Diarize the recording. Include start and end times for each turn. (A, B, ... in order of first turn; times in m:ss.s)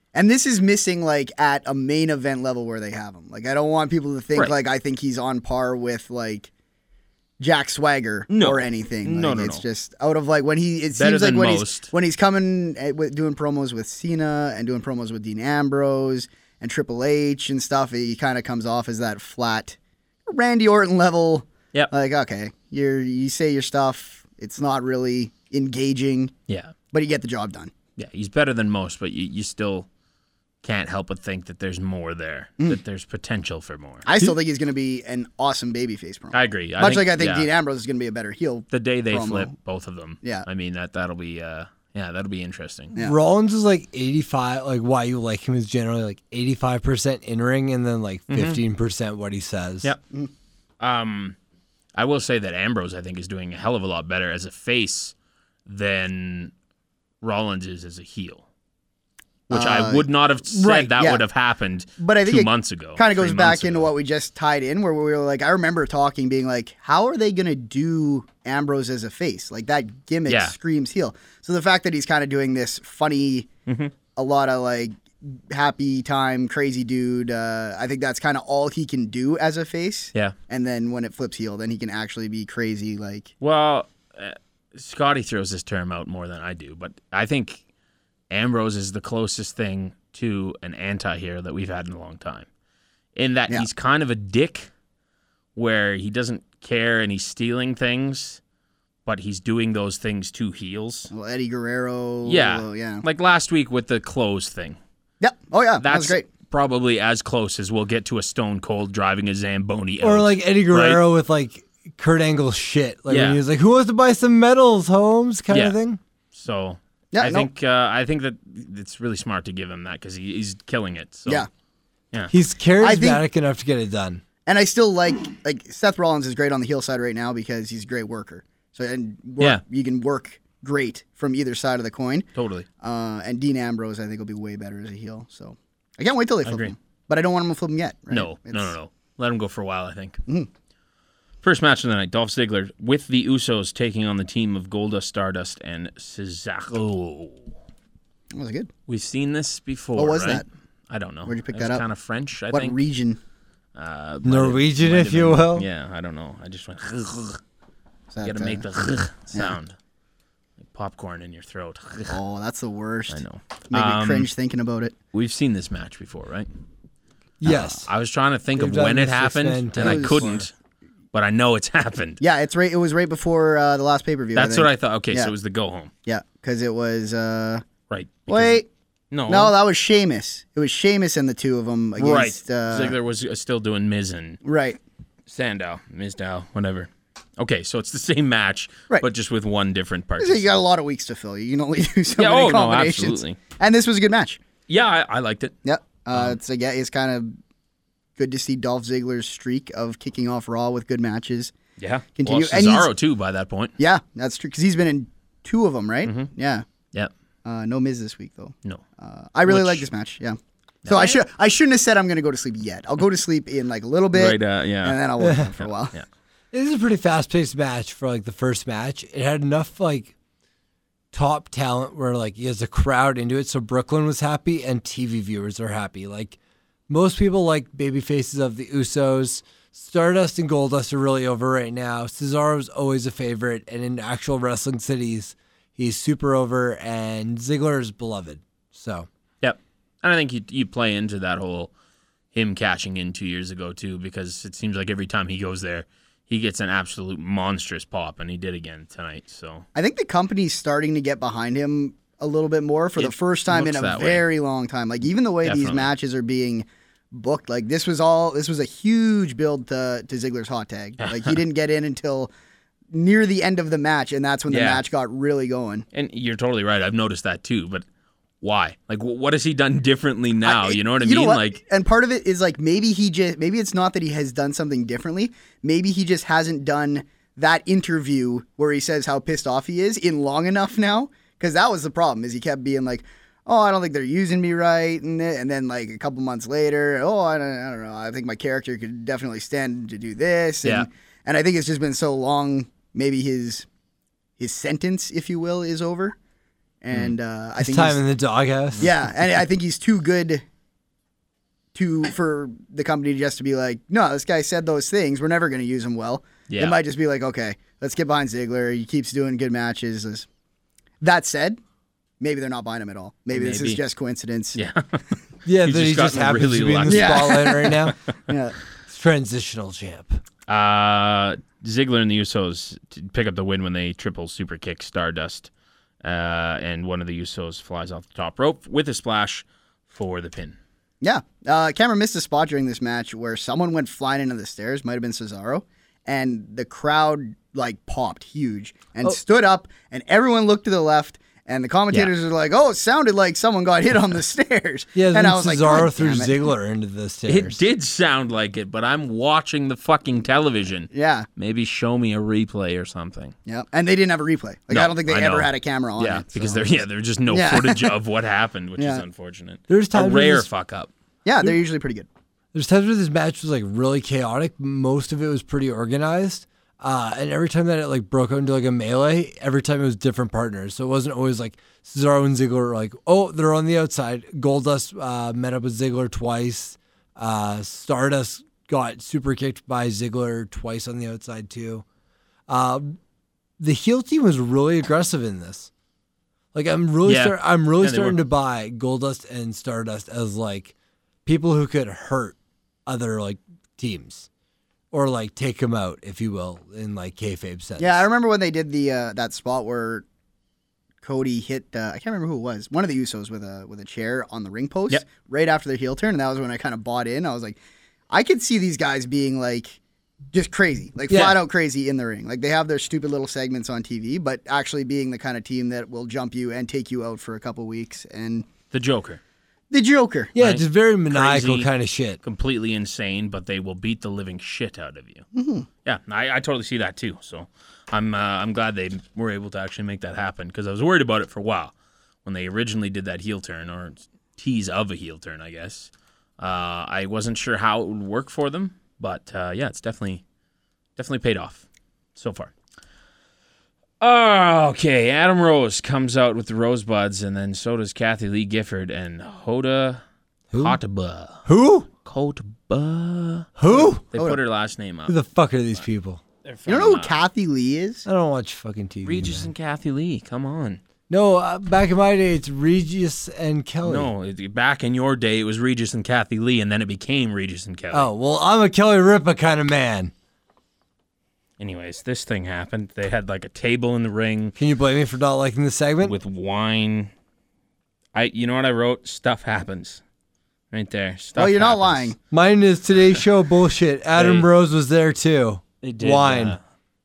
0:00.1-0:06.5 A
0:07.4-0:26.3 A
0:08.3-0:09.6 B
0:11.0-0:11.9 B
0:26.9-0:27.7 A
0:28.0-0:29.9 B
0:30.6-0:34.1 B
0:34.0-0:39.5 A
0:36.3-0:37.5 B
0:38.7-0:43.0 B
0:43.0-0:49.9 C
0:48.3-0:48.6 B
0:50.8-0:51.4 B
0:52.0-0:55.1 B
0:55.7-0:56.5 B
0:57.2-0:58.4 B
0:59.5-1:03.9 B
0:59.5-1:01.2 A
1:02.0-1:13.5 A
1:10.3-1:10.6 B
1:13.7-1:13.9 B
1:14.2-1:23.3 A
1:23.4-1:27.6 B
1:28.3-1:32.5 B
1:33.2-1:34.7 B
1:35.6-1:38.4 B
1:39.1-1:41.1 B
1:41.1-1:43.0 A
1:42.2-1:44.8 B
1:45.2-1:46.3 A
1:45.8-1:51.0 B
1:50.0-1:56.0 C
1:53.1-1:53.4 B
1:55.5-1:55.8 B
1:56.3-2:01.5 B
1:57.1-1:57.5 A
2:02.3-2:04.2 C
2:02.8-2:03.2 A
2:04.5-2:12.3 A
2:12.4-2:12.7 B
2:12.8-2:18.7 A
2:16.4-2:16.7 B
2:18.1-2:20.2 B
2:21.4-2:27.5 B
2:28.3-2:28.7 A
2:28.9-2:32.8 B
2:30.0-2:30.4 A
2:31.3-2:31.8 A
2:32.5-2:33.2 A
2:33.8-2:37.4 B
2:34.2-2:35.7 C
2:38.1-2:38.6 A
2:38.2-2:39.8 B
2:40.7-2:42.2 B
2:42.1-2:45.0 A
2:43.1-2:44.3 B
2:45.1-2:46.5 B
2:47.4-2:47.9 C
2:47.5-2:47.7 A
2:47.6-2:50.5 B
2:48.6-2:50.4 C
2:49.8-2:50.4 A
2:51.1-2:52.2 B
2:52.2-2:55.3 A
2:54.4-2:55.9 B
2:56.1-2:57.6 A
2:57.9-2:59.6 B
2:58.3-2:58.7 A
2:59.3-3:03.0 A
3:02.0-3:04.4 B
3:04.4-3:04.8 A
3:05.3-3:10.5 B
3:10.2-3:14.4 A
3:12.2-3:13.4 B
3:14.7-3:15.6 B
3:15.6-3:17.3 A
3:16.1-3:16.4 B
3:18.2-3:21.5 A
3:21.8-3:23.7 B
3:22.2-3:22.9 A
3:23.8-3:26.6 A
3:26.0-3:26.3 B
3:27.4-3:36.0 A
3:29.5-3:29.9 B
3:30.8-3:31.2 B
3:34.1-3:35.0 B
3:35.2-3:35.5 C
3:35.6-3:36.1 B
3:36.5-3:40.1 C
3:41.1-3:46.4 C
3:46.9-3:59.1 C
3:59.4-4:01.7 B
4:02.3-4:09.7 B
4:09.8-4:22.3 A
4:13.0-4:14.3 B
4:15.4-4:15.9 B
4:21.0-4:21.4 B
4:22.9-4:25.9 A
4:24.5-4:24.8 B
4:25.9-4:27.8 B
4:28.4-4:31.6 B
4:30.4-4:53.7 A
4:54.4-4:56.2 A
4:56.8-4:58.0 A
4:57.6-4:58.9 C
4:58.8-5:00.4 A
5:01.7-5:10.3 A
5:06.5-5:06.8 B
5:11.0-5:11.6 A
5:12.2-5:14.6 A
5:13.3-5:13.8 B
5:14.6-5:17.9 B
5:15.4-5:18.0 C
5:16.9-5:18.6 A
5:18.9-5:20.2 C
5:20.5-5:25.5 B
5:26.0-5:30.6 B
5:31.0-5:46.4 A
5:45.0-5:47.6 C
5:47.3-5:53.4 B
5:50.9-5:51.3 A
5:53.5-5:58.0 A
5:54.7-6:00.9 B
5:58.8-5:59.0 A
5:59.7-6:00.5 C
6:01.2-6:02.1 A
6:02.5-6:21.8 C
6:22.5-6:23.0 C
6:23.6-6:25.7 C
6:26.5-6:30.7 C
6:27.0-6:28.2 B
6:31.2-6:32.4 C
6:32.9-6:34.3 C
6:34.9-6:38.0 C
6:37.8-6:40.0 A
6:41.0-6:47.6 A
6:48.1-6:49.8 A
6:50.3-6:58.5 A
6:51.1-6:51.4 C
6:58.7-6:59.2 B
6:59.7-7:00.3 A
7:00.4-7:01.7 B
7:00.4-7:02.2 C
7:02.2-7:05.3 B
7:05.3-7:05.7 A
7:05.8-7:11.7 B
7:12.2-7:20.2 B
7:21.0-7:22.5 B
7:24.0-7:30.0 B
7:30.5-7:30.8 C
7:30.6-7:31.5 B
7:31.5-7:31.9 C
7:32.0-7:33.5 B
7:33.6-7:34.0 C
7:33.7-7:34.4 A
7:34.1-7:35.2 B
7:35.1-7:36.2 C
7:36.4-7:37.2 B
7:36.7-7:38.1 A
7:38.1-7:39.5 C
7:39.0-7:40.8 B
7:41.1-7:44.1 C
7:43.8-7:48.1 B
7:47.9-7:50.1 C
7:51.6-7:54.6 B
7:54.6-7:56.2 C
7:56.0-7:57.1 B
7:58.1-8:00.0 B
8:00.7-8:02.1 B
8:01.4-8:02.2 A
8:02.3-8:06.6 C
8:04.2-8:04.5 B
8:05.8-8:06.6 B